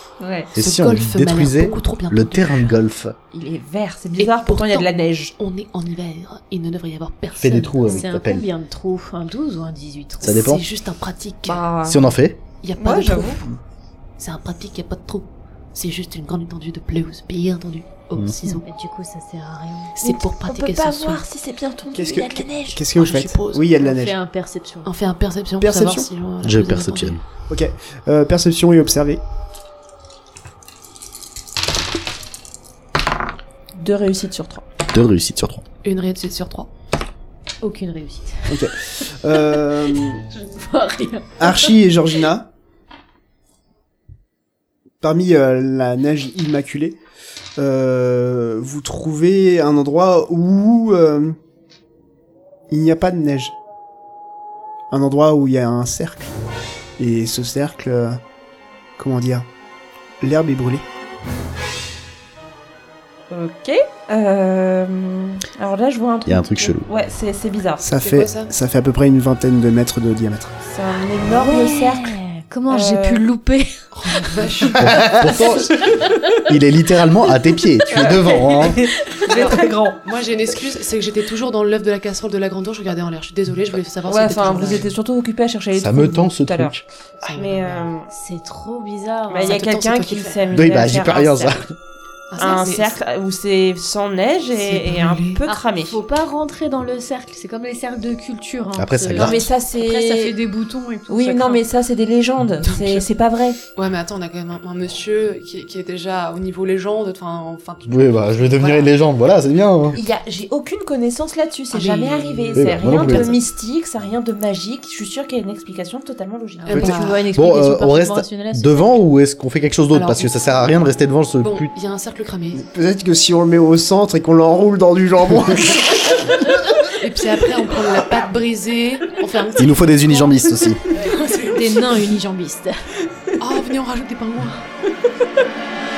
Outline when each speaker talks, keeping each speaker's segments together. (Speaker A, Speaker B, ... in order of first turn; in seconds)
Speaker A: 0.2-0.5, 3.3-5.3, 11.4-12.2, 12.8-13.4, 20.0-22.8, 33.7-34.6, 63.3-67.8, 70.6-72.2, 72.7-73.2, 77.9-80.0, 84.0-88.1, 89.3-91.6, 92.4-96.0, 99.1-100.4, 101.1-103.6, 109.9-116.9
Speaker B: 0.5-2.7, 4.2-7.8, 10.2-11.6, 12.6-13.4, 14.2-18.6, 20.0-21.2, 22.9-23.7, 24.8-27.2, 35.8-36.7, 67.9-68.5, 73.9-75.2, 79.3-85.0, 87.2-87.6, 89.5-90.8, 92.3-93.0, 94.5-95.4, 102.6-103.0, 103.7-108.9, 111.7-113.3, 116.7-117.2, 119.9-120.4, 121.4-122.6, 126.8-132.1, 133.4-134.7
Speaker C: 0.6-3.1, 7.4-8.4, 10.2-10.6, 11.8-12.4, 26.4-27.2, 34.9-35.6, 66.2-66.9, 74.8-75.8, 76.4-78.8, 85.7-86.8, 90.5-91.7, 98.8-99.5, 107.9-110.0, 112.5-113.3, 117.3-121.7, 129.6-130.8
Speaker D: 7.4-10.6, 18.4-20.0, 23.8-24.9, 37.6-41.8, 71.3-76.1, 79.1-79.6, 88.1-90.1, 95.4-101.6, 116.6-119.0, 130.9-132.9
Speaker E: 21.9-24.1, 25.6-26.1, 27.5-29.2, 38.5-40.2, 41.4-42.5, 45.0-47.0, 47.6-51.4, 52.7-53.5, 54.9-56.3, 57.0-58.2, 59.0-59.5, 60.2-60.9, 67.8-70.5, 122.5-126.3